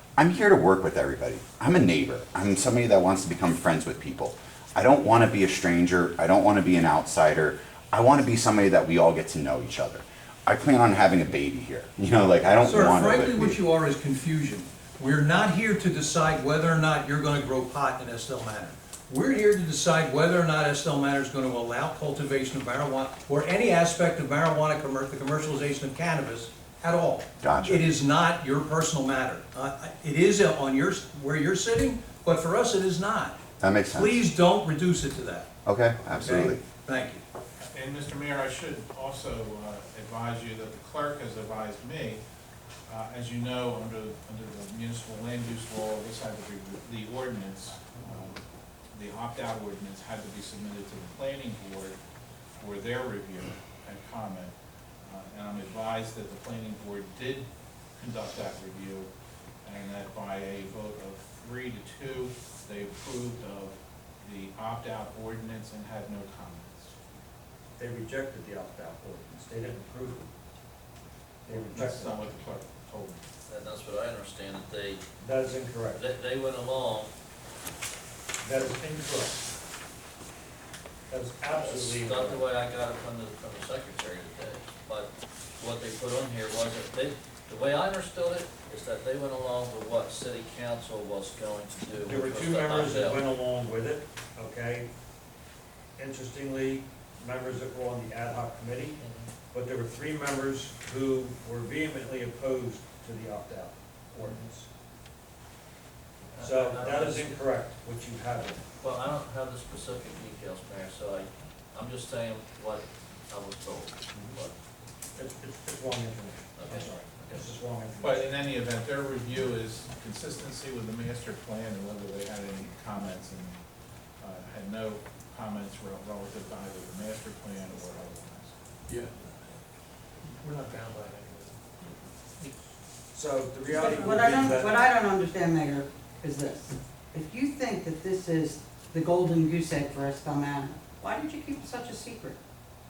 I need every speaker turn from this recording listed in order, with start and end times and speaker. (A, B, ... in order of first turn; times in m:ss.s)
0:00.2-0:13.6 A
0:12.6-0:33.4 B
0:27.4-0:27.8 A
0:33.6-0:34.2 A
0:33.9-0:35.5 B
0:35.6-0:36.6 A
0:36.1-0:37.2 B
0:37.6-0:42.2 C
0:42.9-0:48.4 C
0:48.9-0:52.0 C
0:52.6-0:59.1 C
0:59.6-1:07.0 C
1:07.8-1:10.3 D
1:11.4-1:12.3 D
1:11.5-1:13.2 C
1:13.5-1:15.0 E
1:15.2-1:16.0 D
1:16.0-1:17.1 E
1:18.4-1:19.4 D
1:21.1-1:22.4 D
1:21.5-1:33.2 E
1:32.0-1:34.9 D
1:36.0-1:39.0 D
1:39.0-1:39.3 E
1:39.5-1:44.7 D
1:46.3-1:47.4 E
1:46.4-1:48.6 D
1:48.8-1:54.5 E
1:54.1-1:54.4 D
1:55.2-1:58.3 D
1:56.6-1:57.5 E
1:58.0-2:03.6 C
2:04.2-2:08.5 C
2:10.3-2:11.5 B
2:13.1-2:14.8 D
2:13.9-2:22.4 F